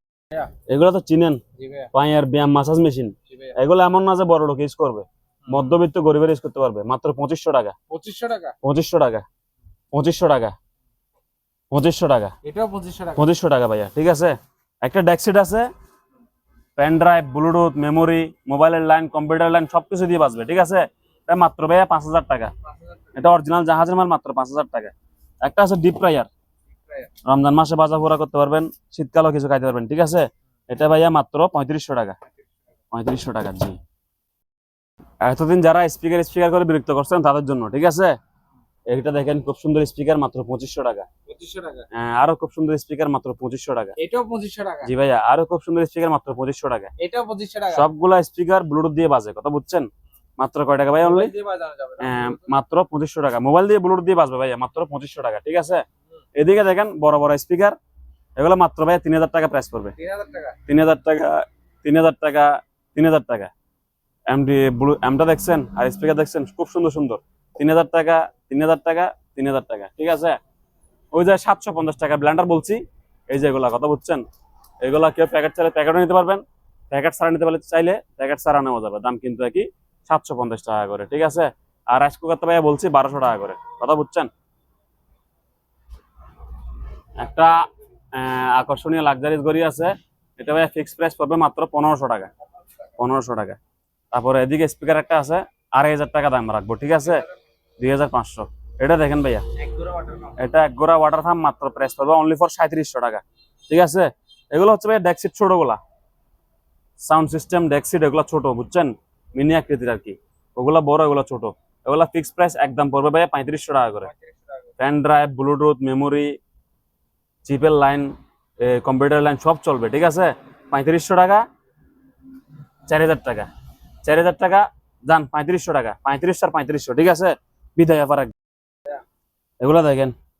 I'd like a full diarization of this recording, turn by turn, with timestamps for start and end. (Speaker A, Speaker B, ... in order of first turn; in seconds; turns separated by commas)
Speaker A: 0.7-1.4, Speaker B: 1.6-1.9, Speaker A: 1.9-7.8, Speaker B: 3.3-3.6, Speaker B: 7.9-8.6, Speaker A: 8.6-9.2, Speaker A: 9.9-10.6, Speaker A: 11.7-12.3, Speaker B: 12.4-13.2, Speaker A: 13.2-15.7, Speaker A: 16.8-22.5, Speaker B: 22.7-23.2, Speaker A: 23.1-26.3, Speaker B: 26.8-27.1, Speaker A: 27.2-32.2, Speaker A: 32.9-33.8, Speaker A: 35.2-38.1, Speaker A: 38.9-41.1, Speaker B: 41.3-41.9, Speaker A: 41.9-44.0, Speaker B: 44.0-44.9, Speaker A: 44.8-46.9, Speaker B: 47.0-47.9, Speaker A: 47.7-51.3, Speaker B: 51.0-52.5, Speaker A: 52.0-55.8, Speaker A: 56.4-57.8, Speaker A: 58.4-60.0, Speaker B: 60.0-60.6, Speaker A: 60.7-63.5, Speaker A: 64.3-70.4, Speaker A: 71.1-74.2, Speaker A: 74.8-84.3, Speaker A: 87.2-92.3, Speaker A: 93.0-93.6, Speaker A: 94.1-97.3, Speaker A: 97.8-99.5, Speaker B: 99.6-100.3, Speaker A: 100.3-105.8, Speaker A: 107.0-114.1, Speaker B: 114.1-114.5, Speaker A: 114.8-116.4, Speaker A: 117.5-121.5, Speaker A: 122.9-123.5, Speaker A: 124.0-128.3, Speaker A: 129.6-130.2